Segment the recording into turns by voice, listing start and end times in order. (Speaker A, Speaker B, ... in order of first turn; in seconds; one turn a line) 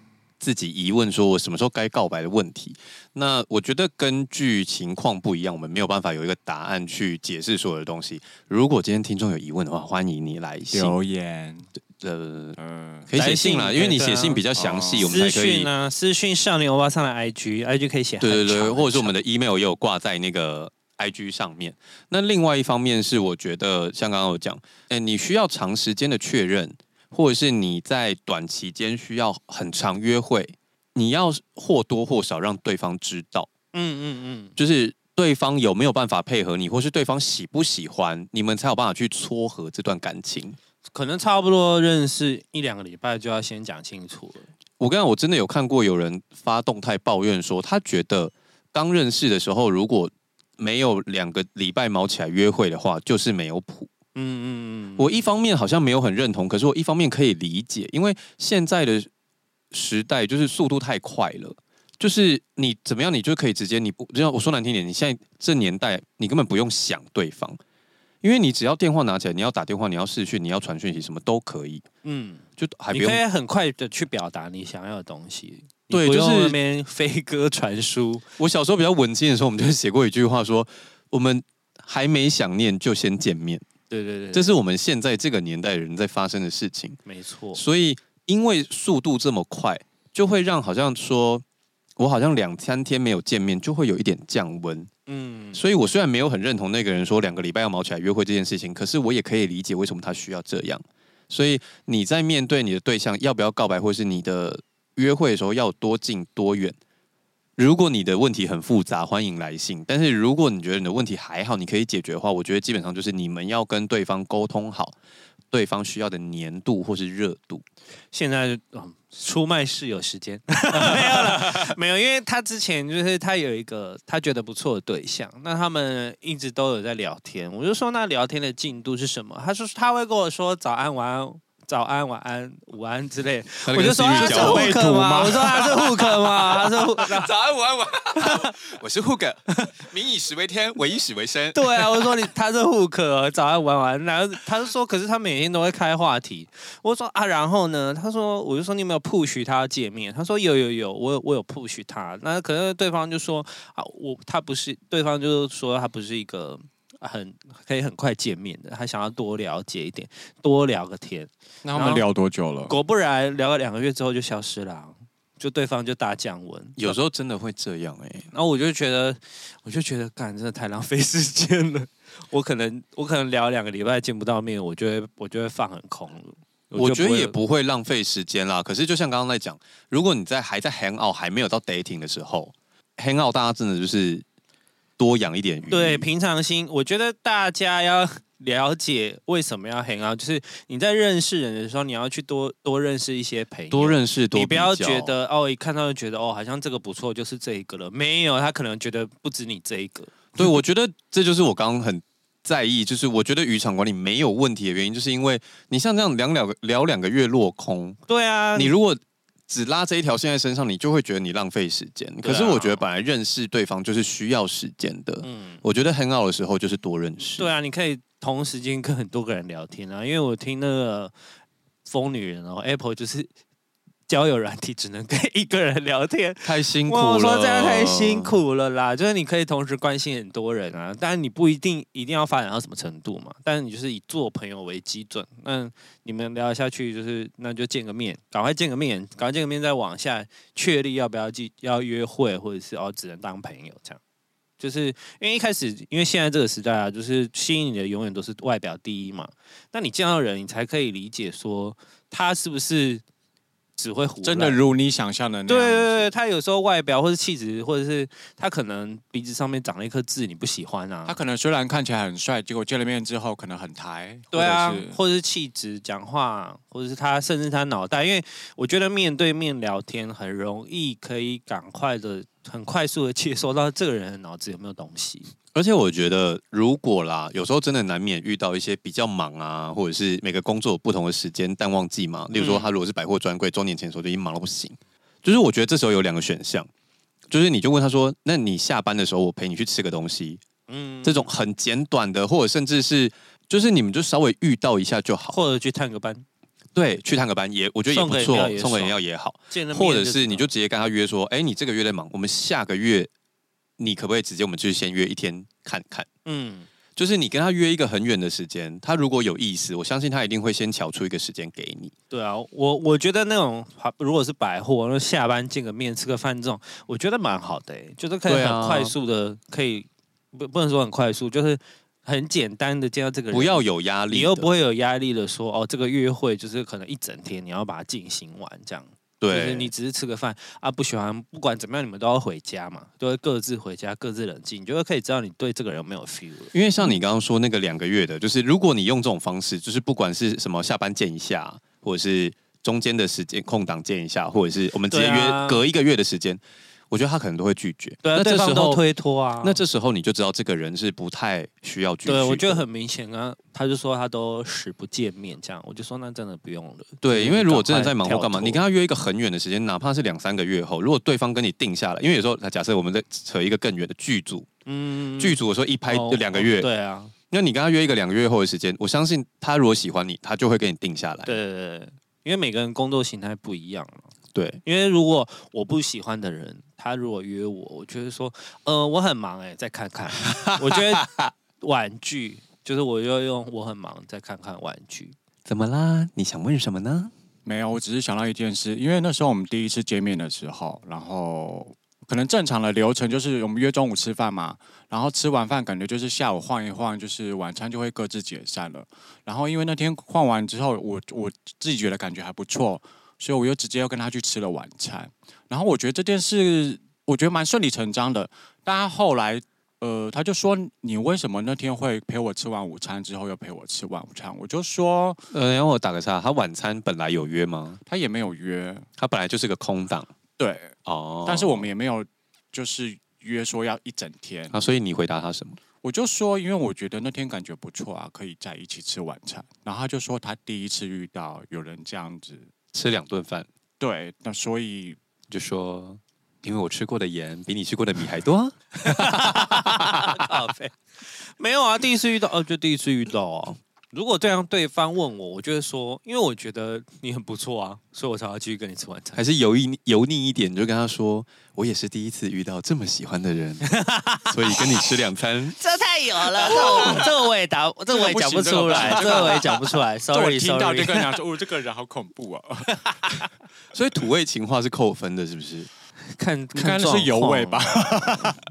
Speaker A: 0.4-10.9
Speaker B: 10.7-11.7
Speaker A: 12.0-15.7
Speaker B: 12.6-13.1
Speaker C: 13.2-14.4
Speaker B: 14.6-15.1
Speaker C: 15.0-19.1
Speaker A: 18.2-33.5
Speaker C: 33.7-34.5
Speaker A: 34.6-40.6
Speaker C: 40.9-44.5
Speaker A: 44.8-53.9
Speaker C: 54.1-55.1
Speaker A: 55.0-59.1
Speaker A: 59.7-67.6
Speaker A: 68.2-71.8
Speaker C: 72.0-78.2
Speaker A: 72.6-73.2
Speaker A: 75.9-76.6
Speaker A: 78.4-83.7
Speaker C: 83.9-84.5
Speaker A: 84.3-87.0
Speaker C: 87.1-87.6
Speaker A: 87.5-91.4
Speaker A: 92.0-94.9
Speaker C: 95.1-95.7
Speaker A: 95.5-106.8
Speaker A: 107.6-115.0
Speaker A: 115.5-117.6
Speaker C: 118.1-137.3
Speaker A: 120.8-121.7
Speaker A: 133.7-134.7
Speaker B: 134.1-135.5
Speaker A: 135.3-142.3
Speaker C: 138.2-138.5
Speaker C: 141.5-162.1
Speaker B: 161.6-162.7
Speaker C: 162.7-167.0
Speaker A: 166.8-168.3
Speaker C: 168.3-177.4
Speaker A: 176.8-184.2
Speaker A: 185.0-186.1
Speaker C: 185.7-200.6
Speaker A: 193.7-195.1
Speaker A: 200.4-208.0
Speaker C: 208.1-208.7
Speaker A: 208.6-217.5
Speaker C: 212.2-212.8
Speaker C: 215.2-215.6
Speaker C: 217.2-221.1
Speaker C: 221.8-223.3
Speaker C: 224.1-244.0
Speaker A: 226.4-228.3
Speaker C: 244.6-253.0
Speaker C: 253.8-254.6
Speaker B: 254.2-256.1
Speaker C: 255.5-261.2
Speaker B: 261.1-265.0
Speaker C: 264.3-275.3
Speaker A: 275.6-286.7
Speaker C: 282.4-282.7
Speaker A: 287.3-290.4
Speaker C: 290.7-291.3
Speaker A: 291.0-295.4
Speaker C: 295.3-296.3
Speaker A: 296.8-303.1
Speaker C: 297.9-299.0
Speaker C: 299.5-300.5
Speaker A: 303.8-306.1
Speaker C: 306.2-306.7
Speaker A: 307.0-311.9
Speaker C: 312.1-336.9
Speaker A: 318.3-318.9
Speaker A: 323.3-324.5
Speaker A: 329.2-329.7
Speaker A: 336.5-346.4
Speaker C: 344.9-345.6
Speaker A: 346.9-348.8
Speaker C: 348.0-349.6
Speaker A: 349.4-352.6
Speaker C: 352.1-358.6
Speaker A: 357.0-364.5
Speaker C: 364.7-367.1
Speaker A: 365.2-366.7
Speaker A: 367.3-371.4
Speaker C: 371.3-374.1
Speaker A: 374.3-374.6
Speaker C: 374.6-381.1
Speaker A: 380.2-381.3
Speaker C: 381.6-385.2
Speaker A: 385.5-387.1
Speaker B: 387.4-415.2
Speaker A: 415.3-417.8
Speaker B: 417.9-418.9
Speaker A: 419.0-420.1
Speaker B: 420.4-424.6
Speaker A: 420.9-421.7
Speaker A: 424.5-425.6
Speaker B: 425.8-432.5
Speaker A: 432.7-433.5
Speaker B: 433.8-435.0
Speaker A: 435.3-440.4
Speaker C: 438.8-449.2
Speaker A: 449.1-453.7
Speaker C: 453.7-454.8
Speaker A: 454.3-455.6
Speaker C: 455.6-461.1
Speaker A: 456.4-457.0
Speaker B: 457.9-463.1
Speaker A: 458.8-459.4
Speaker A: 463.7-465.7
Speaker C: 466.2-468.0
Speaker B: 466.6-468.4